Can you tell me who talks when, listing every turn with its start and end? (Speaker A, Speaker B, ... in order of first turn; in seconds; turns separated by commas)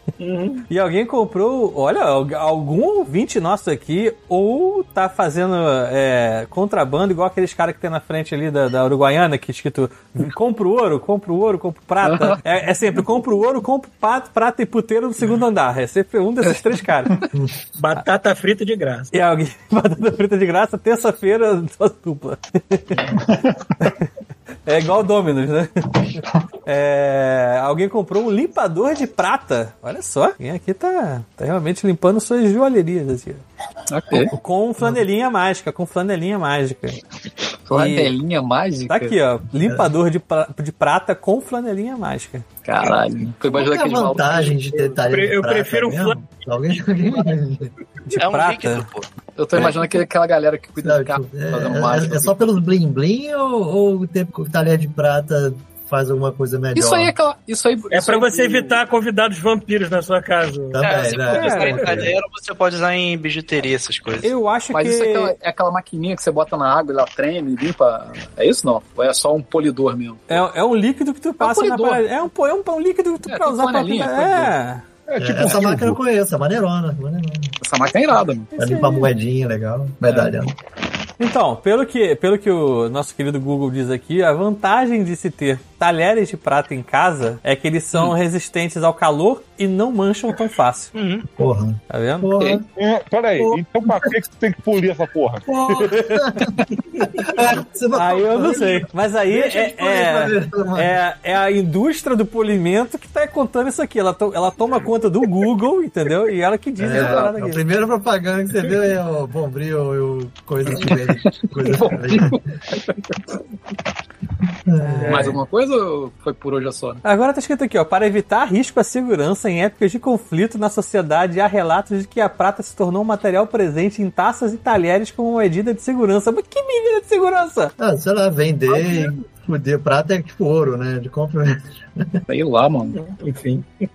Speaker A: 0.2-0.7, Speaker B: 0.7-17.2, Speaker C: 12.0-12.4, Speaker A: 17.8-19.1, Speaker B: 19.1-23.1, Speaker B: 23.8-24.1, Speaker B: 24.6-33.4, Speaker C: 33.9-34.3, Speaker B: 34.1-37.0, Speaker C: 37.7-39.1, Speaker B: 37.7-38.1, Speaker B: 38.9-42.5, Speaker D: 39.6-39.9, Speaker C: 42.6-44.6, Speaker D: 43.5-47.7, Speaker A: 44.7-46.2, Speaker B: 48.1-48.9, Speaker E: 48.1-49.1, Speaker C: 49.4-52.6, Speaker D: 50.8-57.1, Speaker C: 56.7-58.8, Speaker A: 57.9-61.7, Speaker D: 60.7-62.1, Speaker E: 60.8-64.3, Speaker B: 61.3-62.0, Speaker B: 64.2-65.3, Speaker C: 64.7-70.4, Speaker B: 70.3-74.8, Speaker C: 71.4-72.0, Speaker C: 73.2-74.5, Speaker F: 75.1-76.0, Speaker D: 75.2-77.5, Speaker C: 77.6-78.5, Speaker B: 78.5-79.1, Speaker D: 78.5-80.5, Speaker B: 81.2-90.9, Speaker E: 90.9-91.2, Speaker D: 91.4-92.6, Speaker B: 91.9-92.3, Speaker F: 92.8-95.5, Speaker D: 93.4-94.1, Speaker D: 95.5-100.9, Speaker B: 95.7-96.4, Speaker B: 97.9-107.6, Speaker D: 106.8-112.4, Speaker C: 106.9-107.3, Speaker C: 110.7-112.8, Speaker D: 114.7-115.4, Speaker B: 114.8-115.3, Speaker A: 115.0-115.3, Speaker C: 115.0-117.0, Speaker B: 117.0-127.7, Speaker D: 127.8-132.2, Speaker A: 128.7-129.2, Speaker C: 132.3-133.0, Speaker A: 132.9-133.7